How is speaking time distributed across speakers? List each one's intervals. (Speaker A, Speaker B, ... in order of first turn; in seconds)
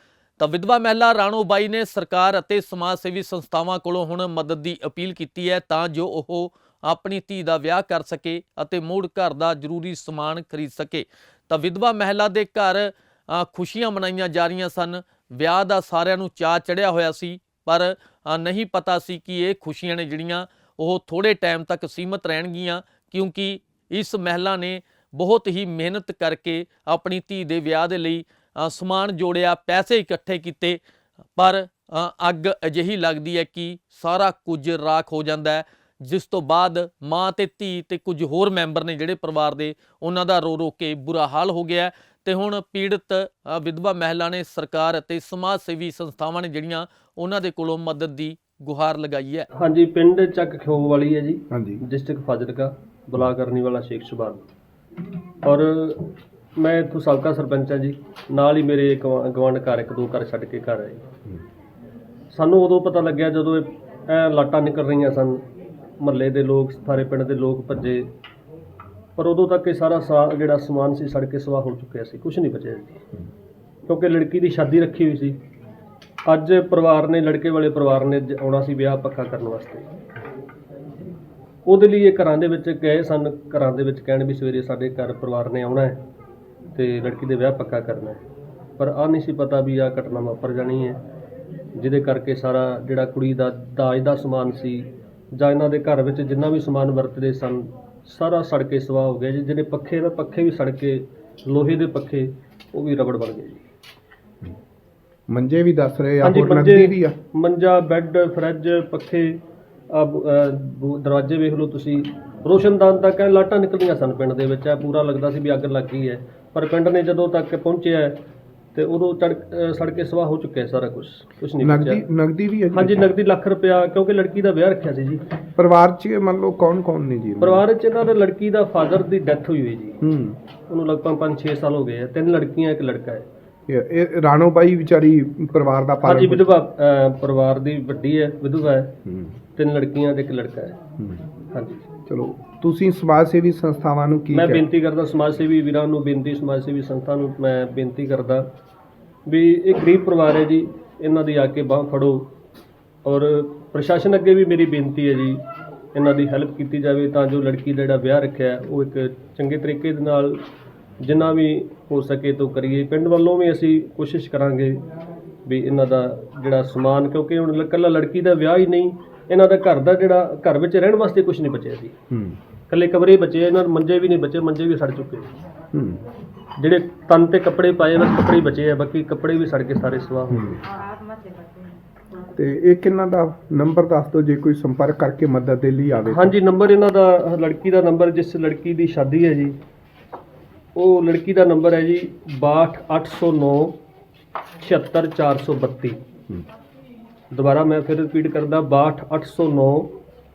Speaker A: 0.4-30.8, 31.4-49.5
Speaker B: 49.5-54.5, 55.4-61.0, 62.3-65.4, 66.0-68.1, 69.2-73.0, 73.8-75.4, 76.2-79.9, 81.6-86.0, 86.7-88.2, 88.8-91.0, 91.7-103.6, 106.2-118.2, 118.7-122.0, 122.7-125.2, 127.4-130.0, 130.7-133.2, 136.0-138.9, 139.6-140.8, 141.5-141.8, 144.3-148.4, 149.2-152.3, 153.0-155.4, 155.9-160.4, 161.0-164.8, 165.4-171.9, 172.7-175.3, 176.6-180.6, 186.1-189.6, 190.7-193.8, 194.6-196.0, 197.3-199.9
Speaker C: 51.5-51.8, 105.3-107.1, 121.6-123.1, 125.6-127.6, 130.0-130.4, 133.7-136.5, 139.1-139.3, 141.0-141.2, 142.1-144.6, 172.1-172.4, 175.7-176.0, 180.3-180.6, 182.3-186.3